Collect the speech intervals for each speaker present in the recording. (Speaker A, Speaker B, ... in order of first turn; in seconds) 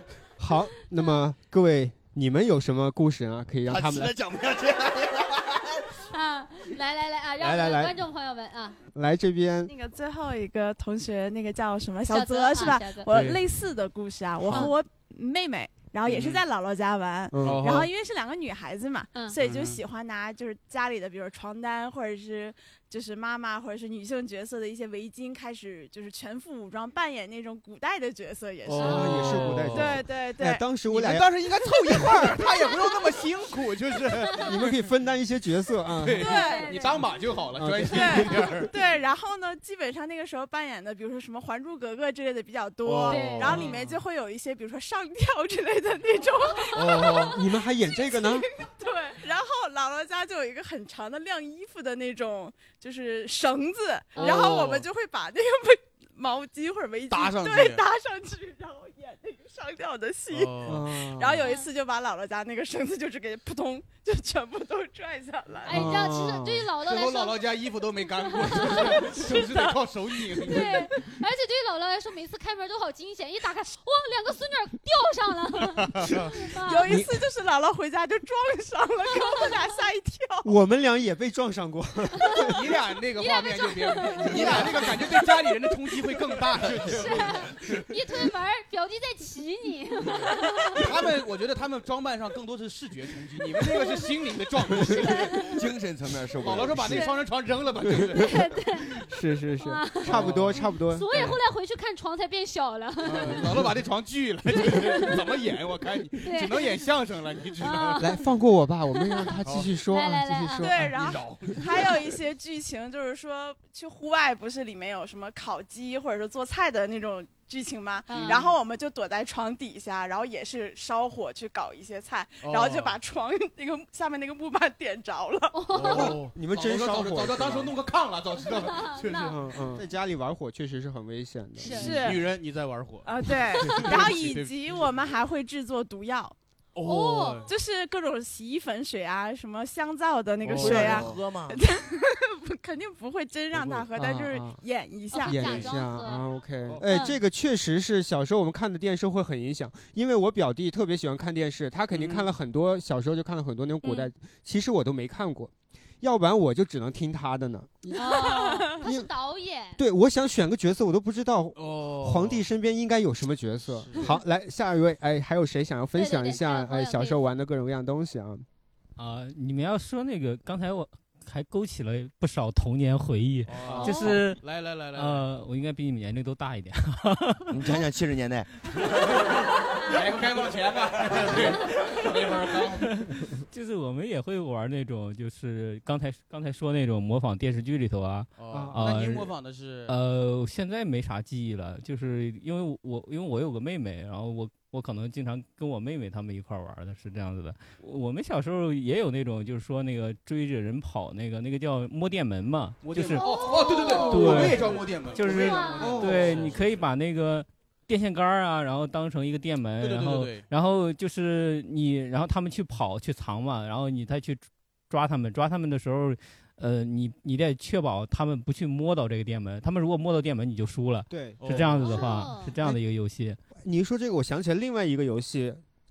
Speaker A: 0.4-4.1, 7.4-8.0, 8.9-9.7, 17.3-17.8, 28.7-31.4, 31.9-32.4, 34.3-36.3, 37.5-38.2, 47.3-48.5, 60.6-61.4, 65.7-66.7, 76.9-77.1, 80.4-82.6, 99.0-101.0, 103.2-103.7, 108.0-111.0, 126.3-127.7, 129.1-132.1, 140.6-141.0, 143.9-144.6, 145.2-158.0, 158.7-159.1, 159.8-168.4, 188.5-188.8, 204.2-204.6, 205.8-206.5, 221.1-221.4, 223.6-225.6
Speaker B: 3.7-5.9, 86.6-87.3, 95.5-97.1, 140.6-141.6, 177.5-178.5
Speaker C: 6.1-8.8, 12.1-13.1, 28.8-29.1, 36.2-37.0, 43.1-43.7, 54.1-54.6, 61.4-61.7, 65.6-67.4, 68.3-69.4, 70.5-76.9, 83.2-85.1, 86.9-90.8, 93.6-94.0, 95.0-95.5, 98.2-98.9, 99.6-103.4, 104.7-105.1, 106.2-106.8, 107.6-108.1, 109.0-109.3, 109.9-110.7, 118.1-118.5, 125.5-126.2, 128.6-129.3, 131.6-132.2, 136.8-137.4, 145.1-146.2, 146.8-147.1, 153.8-154.1, 157.9-159.8, 165.9-167.2, 173.8-174.2, 203.2-204.5, 205.2-205.8, 221.8-222.5
Speaker D: 9.7-30.6, 36.2-36.7, 37.9-47.3, 48.0-65.9, 69.5-69.7, 76.6-80.5, 84.3-84.8, 110.6-125.5, 133.0-136.3, 137.5-145.4, 158.1-158.8
Speaker E: 13.1-13.4, 16.0-16.4, 17.4-17.9, 19.4-19.8, 28.6-30.0, 30.9-34.8, 36.0-38.7, 42.8-44.0, 46.7-47.4, 54.2-54.9, 57.1-57.8, 60.3-60.8, 66.8-70.9, 76.0-76.3, 82.4-87.2, 90.1-95.5, 96.4-98.4, 100.0-100.6, 103.0-108.1, 109.4-109.7, 110.9-112.0, 118.1-118.4, 122.4-123.0, 125.7-129.8, 131.7-135.0, 136.7-137.5, 140.4-141.2, 143.5-143.9, 145.4-145.7, 151.9-152.3, 161.6-162.4, 163.7-164.1, 173.5-175.2, 179.9-182.9, 188.4-189.9, 202.8-206.7, 209.8-210.4, 221.4-222.1
Speaker F: 169.0-174.4, 174.9-177.6, 182.8-189.3, 189.9-203.4, 204.1-223.4